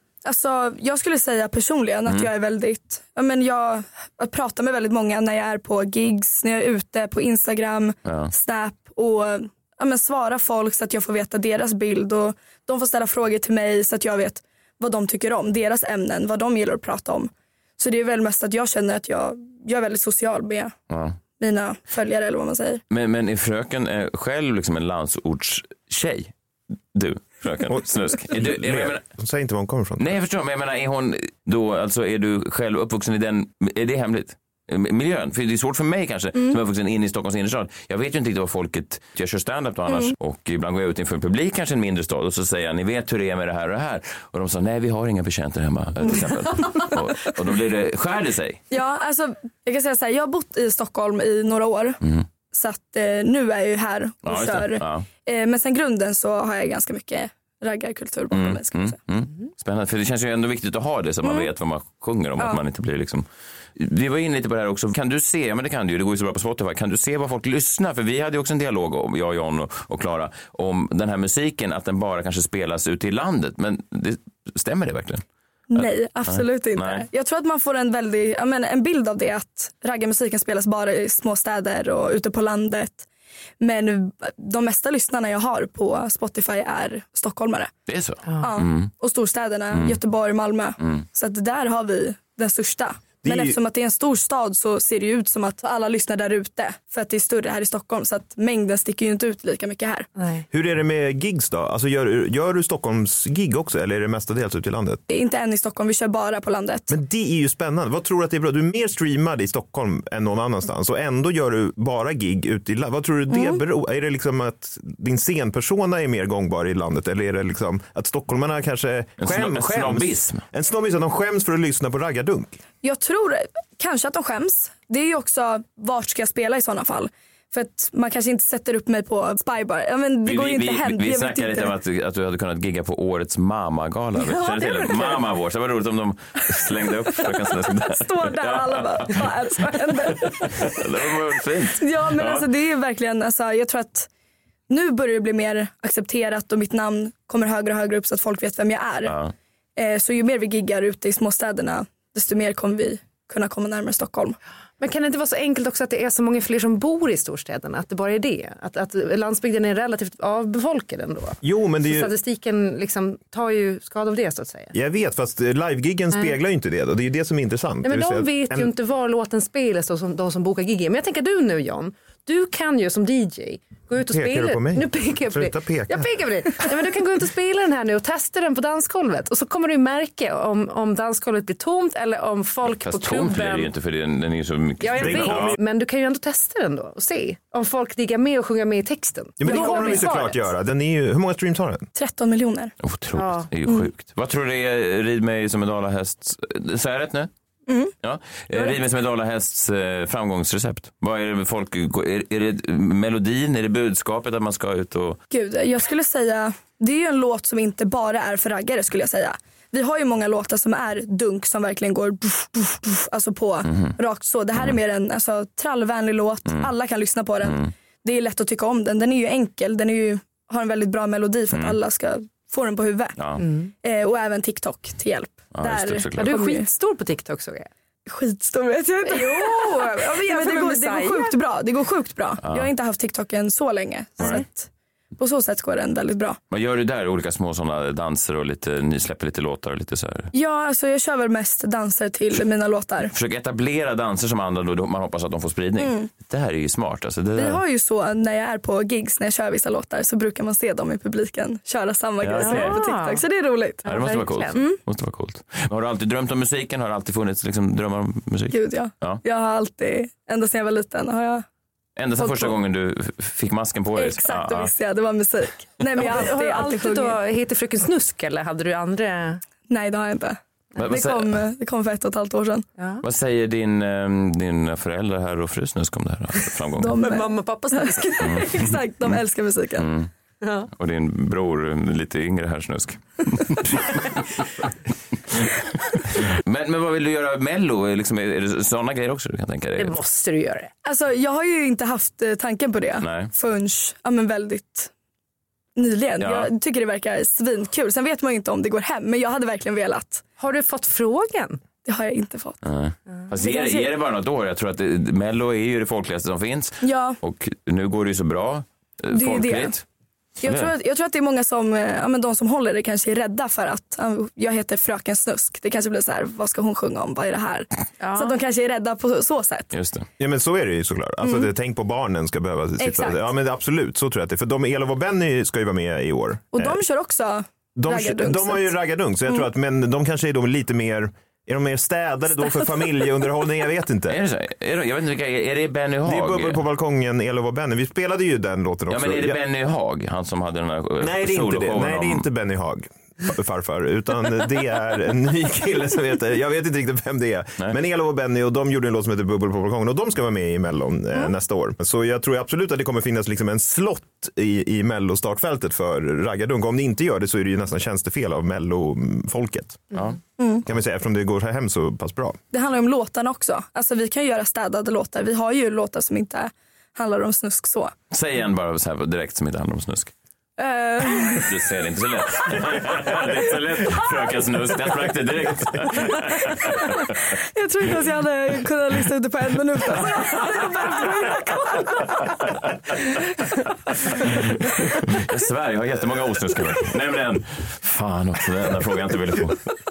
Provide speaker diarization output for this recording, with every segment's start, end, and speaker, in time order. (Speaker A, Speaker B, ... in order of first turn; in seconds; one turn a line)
Speaker A: 0.2-20.7
Speaker B: 8.1-8.3
Speaker B: 20.9-21.2
Speaker A: 21.4-22.8
Speaker B: 22.9-26.3
Speaker B: 26.9-29.0
Speaker C: 27.7-30.1
Speaker B: 30.0-48.6
Speaker A: 39.9-40.1
Speaker A: 48.7-52.0
Speaker A: 52.5-59.0
Speaker B: 54.2-55.1
Speaker B: 58.3-63.2
Speaker A: 61.2-61.5
Speaker B: 63.8-75.2
Speaker A: 75.7-83.1
Speaker B: 75.8-77.1
Speaker A: 83.6-87.7
Speaker B: 87.9-88.9
Speaker A: 88.4-100.1
Speaker B: 89.7-90.0
Speaker C: 93.2-93.6
Speaker D: 100.2-100.5
Speaker C: 100.5-105.0
Speaker A: 105.1-107.0
Speaker C: 106.9-122.6
Speaker A: 113.3-113.6
Speaker B: 119.2-120.4
Speaker A: 122.8-131.7
Speaker B: 130.2-139.3
Speaker A: 134.4-135.1
Speaker A: 137.7-140.9
Speaker B: 139.9-142.5
Speaker A: 141.8-144.1
Speaker A: 144.7-149.2
Speaker B: 149.1-149.3
Speaker A: 149.8-154.4
Speaker D: 154.8-164.8
Speaker C: 161.4-162.1
Speaker C: 164.7-168.7
Speaker D: 167.8-183.7
Speaker C: 174.0-176.2
Speaker B: 182.8-185.6
Speaker D: 184.8-190.5
Speaker C: 185.0-185.6
Speaker C: 189.4-191.9
Speaker A: 189.4-190.3
Speaker A: 191.9-192.7
Speaker B: 192.8-197.3
Speaker D: 193.2-193.5
Speaker A: 197.7-197.9
Speaker B: 198.0-205.2
Speaker A: 205.3-223.2
Speaker B: 213.7-214.0
Speaker B: 217.4-217.7
Speaker B: 221.5-221.8
Speaker B: 223.2-223.4
Speaker D: 223.4-223.7
Speaker A: 223.8-226.7
Speaker B: 225.6-226.3
Speaker D: 226.2-227.7
Speaker A: 228.1-236.4
Speaker D: 229.1-231.4
Speaker B: 232.4-232.7
Speaker B: 236.5-240.3
Speaker A: 240.3-243.1
Speaker B: 243.1-247.6
Speaker A: 245.8-246.1
Speaker A: 247.3-253.9
Speaker B: 252.2-252.8
Speaker D: 252.4-253.2
Speaker D: 253.8-254.6
Speaker B: 253.9-259.2
Speaker A: 258.5-261.4
Speaker B: 262.0-264.7
Speaker A: 262.2-262.6
Speaker A: 264.0-267.2
Speaker D: 266.0-269.4
Speaker A: 269.7-272.7
Speaker B: 270.8-271.4
Speaker D: 272.8-273.0
Speaker B: 273.0-277.0
Speaker A: 276.8-279.9
Speaker D: 277.0-278.2
Speaker B: 278.2-278.8
Speaker B: 279.8-280.1
Speaker D: 280.4-280.7
Speaker B: 280.7-284.5
Speaker B: 286.1-290.0
Speaker D: 289.8-290.7
Speaker A: 290.8-294.9
Speaker B: 293.0-293.3
Speaker A: 295.8-300.2
Speaker B: 296.2-296.5
Speaker D: 300.4-301.6
Speaker A: 301.9-302.6
Speaker B: 302.6-309.8
Speaker A: 303.4-303.9
Speaker A: 306.8-307.2
Speaker A: 309.1-309.8
Speaker A: 310.4-319.7
Speaker B: 310.4-310.7
Speaker D: 318.0-318.4
Speaker B: 319.7-320.1
Speaker C: 320.2-326.8
Speaker A: 321.2-321.5
Speaker A: 322.8-323.3
Speaker A: 326.5-328.8
Speaker C: 327.8-334.2
Speaker B: 334.1-336.6
Speaker C: 336.1-339.4
Speaker B: 338.9-342.3
Speaker C: 341.0-359.9
Speaker B: 359.9-360.2
Speaker A: 360.4-360.6
Speaker C: 360.6-362.4
Speaker A: 362.5-367.9
Speaker B: 368.1-370.1
Speaker A: 370.6-371.5
Speaker B: 371.1-377.1
Speaker A: 376.5-382.4
Speaker B: 380.0-380.9
Speaker B: 383.9-389.7